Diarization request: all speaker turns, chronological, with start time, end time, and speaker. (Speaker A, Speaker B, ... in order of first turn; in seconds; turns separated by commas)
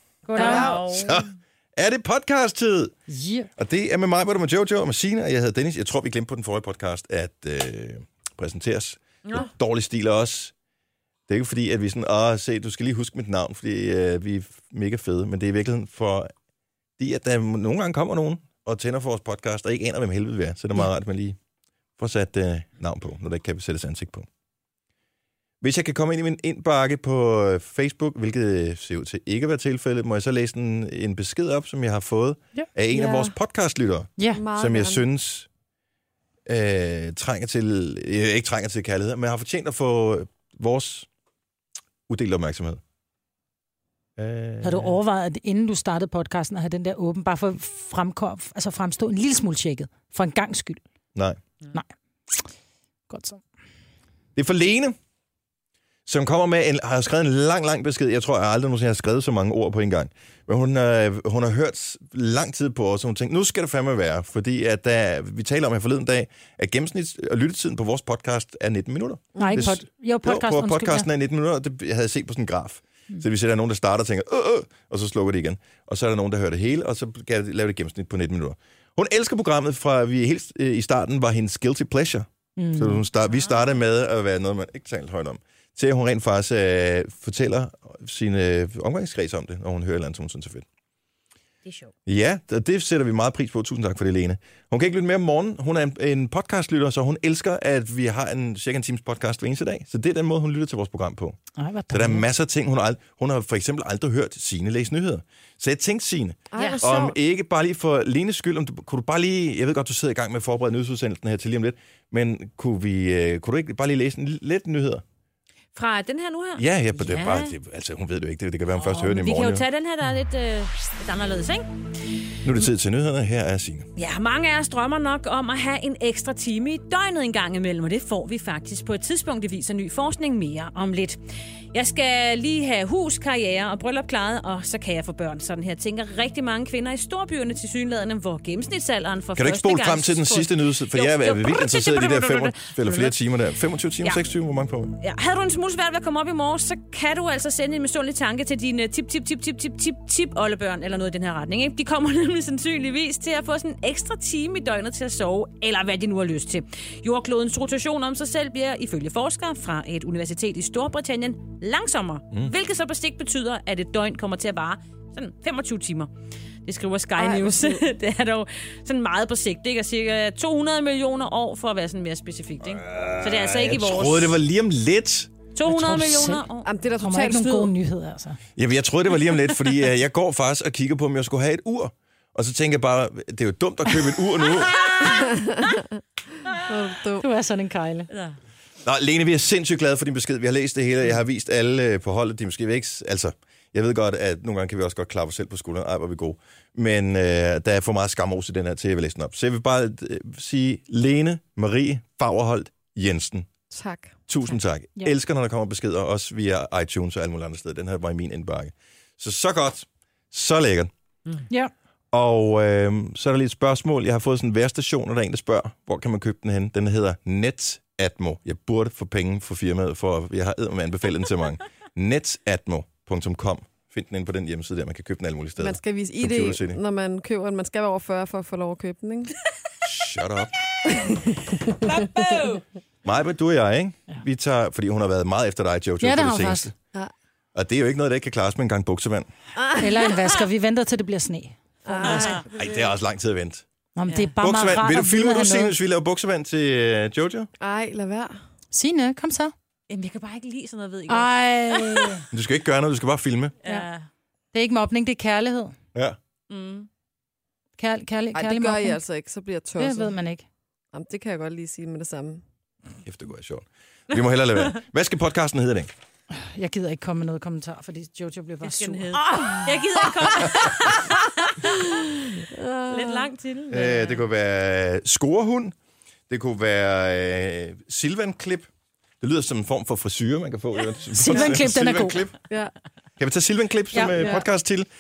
Speaker A: 0.2-0.8, Speaker B: 0.3-1.2, Speaker C: 0.4-0.8, Speaker D: 0.5-2.9, Speaker A: 3.1-3.5, Speaker D: 3.6-10.5, Speaker B: 9.2-9.5, Speaker D: 11.3-16.3, Speaker D: 17.0-21.4, Speaker D: 22.0-24.3, Speaker D: 25.6-35.5, Speaker C: 32.9-33.3, Speaker A: 34.2-34.4, Speaker C: 34.3-35.0, Speaker D: 36.5-41.1, Speaker D: 42.1-42.8, Speaker D: 44.2-45.0, Speaker A: 44.6-50.8, Speaker A: 53.1-53.4, Speaker D: 54.4-55.0, Speaker D: 56.0-90.6, Speaker A: 69.4-71.1, Speaker A: 82.6-83.0, Speaker B: 83.2-83.7, Speaker B: 91.6-91.9, Speaker D: 92.0-101.4, Speaker A: 101.6-102.2, Speaker D: 101.9-115.0, Speaker C: 106.5-107.2, Speaker B: 115.7-117.5, Speaker D: 116.6-119.6, Speaker B: 118.8-121.7, Speaker D: 122.4-123.9, Speaker B: 124.0-131.2, Speaker B: 131.7-143.1, Speaker D: 139.4-145.0, Speaker B: 145.0-166.1, Speaker B: 166.6-174.4, Speaker C: 167.2-167.8, Speaker D: 172.8-175.3, Speaker B: 175.5-176.7, Speaker A: 175.6-176.4, Speaker C: 176.6-177.7, Speaker A: 177.0-178.4, Speaker D: 178.6-184.8, Speaker B: 184.7-185.7, Speaker C: 185.0-185.8, Speaker C: 186.6-187.2, Speaker A: 187.2-188.1, Speaker B: 188.1-188.3, Speaker D: 188.8-203.5, Speaker C: 203.7-204.1, Speaker D: 204.3-210.9, Speaker D: 212.1-226.8, Speaker C: 225.6-229.3, Speaker D: 229.8-230.5, Speaker C: 230.8-232.4, Speaker B: 231.8-232.6, Speaker D: 233.0-236.7, Speaker A: 236.0-236.7, Speaker D: 237.5-239.3, Speaker C: 239.6-240.0, Speaker A: 239.7-242.3, Speaker C: 241.8-242.9, Speaker B: 242.0-242.4, Speaker D: 242.5-243.6, Speaker A: 243.9-245.7, Speaker B: 244.1-244.3, Speaker D: 244.4-247.5, Speaker C: 247.6-248.3, Speaker A: 248.7-249.5, Speaker B: 249.9-252.2, Speaker A: 251.1-252.2, Speaker D: 252.3-253.5, Speaker B: 253.6-254.1, Speaker A: 254.5-255.7, Speaker B: 256.5-256.9, Speaker A: 257.8-259.0, Speaker C: 258.3-260.1, Speaker A: 259.8-260.4, Speaker C: 260.9-262.4, Speaker D: 263.0-265.9, Speaker A: 266.3-269.2, Speaker B: 268.6-271.8, Speaker C: 272.0-273.3, Speaker B: 272.9-274.2, Speaker D: 273.7-275.7, Speaker D: 276.3-278.7, Speaker D: 279.2-282.3, Speaker A: 281.1-282.2, Speaker D: 283.2-284.9, Speaker A: 283.9-284.4, Speaker C: 284.1-284.4